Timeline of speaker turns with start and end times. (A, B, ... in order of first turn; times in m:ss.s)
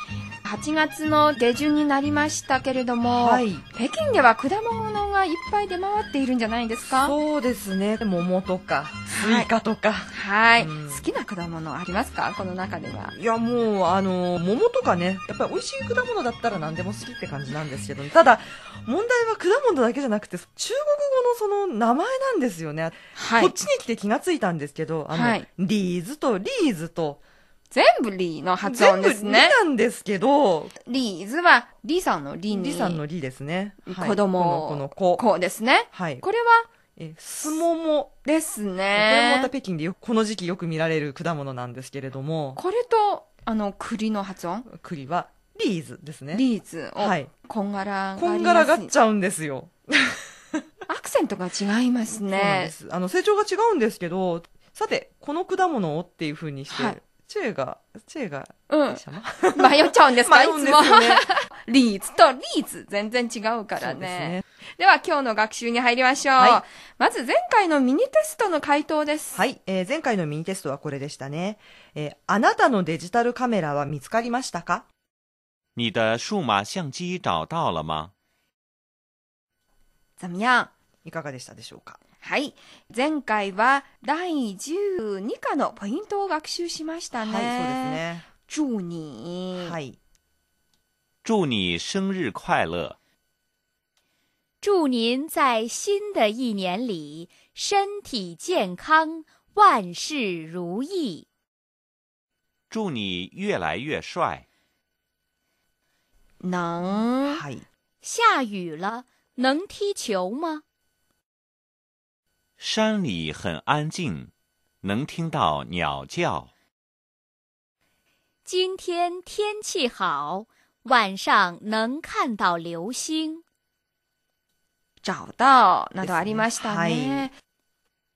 0:00.4-0:07.2 A
0:03.1-0:03.6 B
0:06.8-0:11.0 B
0:09.1-0:09.5 A
0:10.1-0:13.1 A
0:13.1-0:27.2 B
0:23.1-0:23.5 A
0:25.2-0:25.4 A
0:27.7-0:29.6 A
0:28.6-0:30.7 B
0:30.8-0:33.0 A
0:32.5-0:35.2 B
0:33.8-0:36.7 A
0:35.9-0:36.2 B
0:37.0-0:38.1 B
0:38.2-0:39.5 A
0:38.9-0:42.6 B
0:42.6-0:44.7 A
0:44.7-0:46.4 B
0:46.3-0:48.9 A
0:47.0-0:47.3 B
0:48.2-0:50.2 B
0:50.9-0:52.7 A
0:52.2-1:01.3 B
0:56.7-0:57.0 A
0:58.7-0:59.0 A
0:59.5-1:09.4 A
1:03.8-1:04.4 B
1:06.4-1:06.6 B
1:09.3-1:14.8 B
1:15.8-1:18.1 C
1:20.2-1:20.7 A
1:21.0-1:22.0 B
1:22.2-1:29.8 A
1:27.1-1:28.3 B
1:29.5-1:30.0 B
1:31.2-1:33.0 C
1:34.6-1:41.2 D
1:42.7-1:44.4 C
1:46.4-1:47.4 A
1:47.2-1:47.6 B
1:48.0-1:50.6 D
1:52.6-1:54.3 C
1:54.8-1:56.5 C
1:58.4-2:03.4 D
2:05.0-2:07.3 A
2:06.0-2:07.3 B